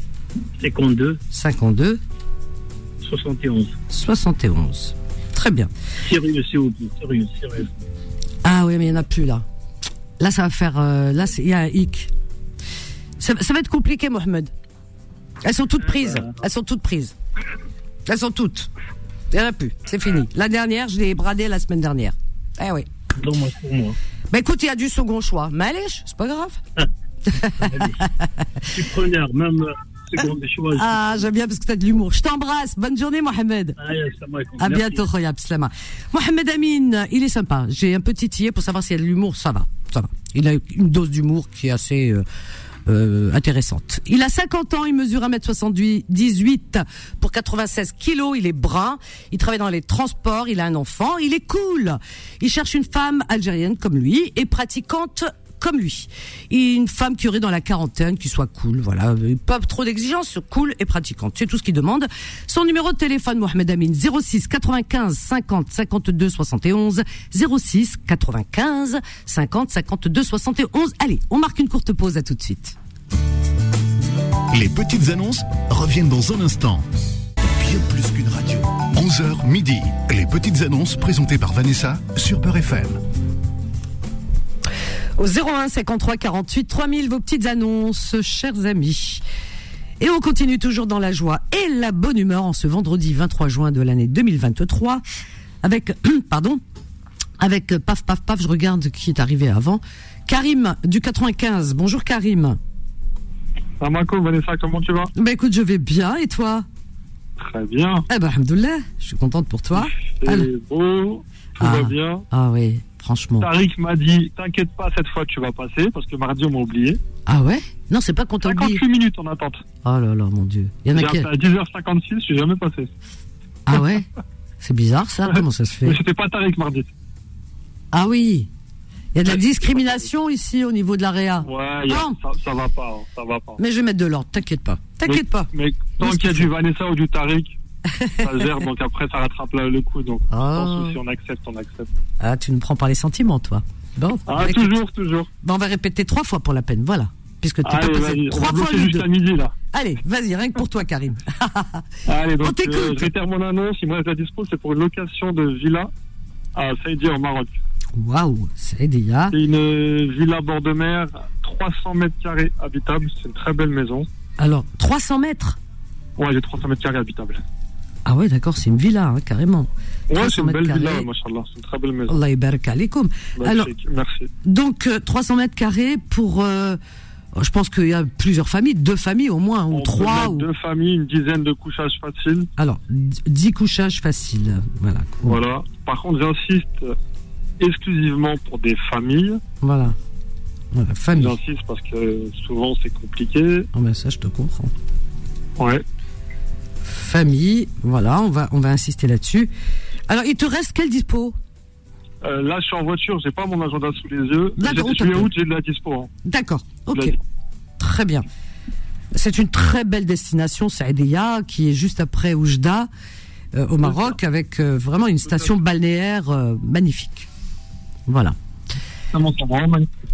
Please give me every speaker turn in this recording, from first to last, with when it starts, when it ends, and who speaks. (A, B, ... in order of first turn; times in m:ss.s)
0:00.6-0:01.2 A
0:01.3-0:02.0 B
0:03.0-0:03.8 A
0:03.9-0:05.7 B
0:06.0-0:07.7 A
0:08.4-0:09.5 B
0:10.2-0:12.1 B
0:13.2-0:14.5 B
0:15.4-0:17.1 B
0:15.9-0:16.4 A
0:18.1-0:18.7 B
0:19.3-0:22.9 B
0:23.2-0:24.0 A
0:24.3-0:26.6 B
0:27.3-0:28.3 B
0:27.6-0:28.0 A
0:28.6-0:31.2 A
0:30.7-0:33.8 B
0:33.8-0:35.1 A
0:34.6-0:42.2 B
0:42.9-1:12.8 B
1:14.5-1:16.8 C
1:17.5-1:23.0 C
1:25.2-1:29.2 B
1:30.0-1:35.0 B
1:35.6-1:36.6 B
1:37.4-1:42.6 B
1:43.8-1:45.1 D
1:45.2-1:46.7 B
1:47.4-1:48.0 D
1:48.1-1:50.5 B
1:49.8-1:52.2 D
1:51.6-1:53.5 B
1:53.4-1:57.0 D
1:57.3-1:58.8 B
1:58.4-1:59.6 D
1:59.8-2:01.3 B
2:00.9-2:02.9 D
2:03.7-2:04.1 B
2:04.6-2:06.0 B
2:05.3-2:06.9 D
2:07.9-2:08.5 B
2:09.1-2:12.2 B
2:09.3-2:10.0 D
2:11.4-2:13.6 D
2:13.6-2:16.5 B
2:15.0-2:17.6 D
2:17.9-2:18.5 B
2:18.2-2:21.9 D
2:20.3-2:21.0 B
2:22.2-2:24.8 B
2:24.3-2:25.3 D
2:25.4-2:29.1 B
2:27.6-2:29.5 D
2:29.7-2:31.9 B
2:32.1-2:35.9 D
2:32.4-2:33.1 B
2:36.6-2:37.6 D
2:37.9-2:39.4 B
2:39.3-2:44.1 D
2:44.4-2:45.6 B
2:46.2-2:47.4 D
2:48.1-2:51.1 B
2:50.1-2:52.2 D
2:52.1-2:53.7 B
2:53.4-2:54.3 D
2:54.4-2:56.8 B
2:57.4-3:00.5 B
2:59.7-3:02.5 D
3:02.6-3:05.4 B
3:05.2-3:06.9 D
3:07.6-3:09.4 D
3:09.6-3:10.0 B
3:10.7-3:11.4 B
3:11.1-3:13.7 D
3:13.7-3:14.7 B
3:15.6-3:15.8 D
3:16.8-3:19.5 B
3:20.1-3:21.4 B
3:22.2-3:26.1 D
3:24.6-3:25.3 B
3:26.2-3:27.2 B
3:27.8-3:28.3 B
3:29.1-3:32.9 B
3:33.5-3:37.3 B
3:33.8-3:34.2 D
3:38.1-3:38.4 B
3:39.1-3:39.9 D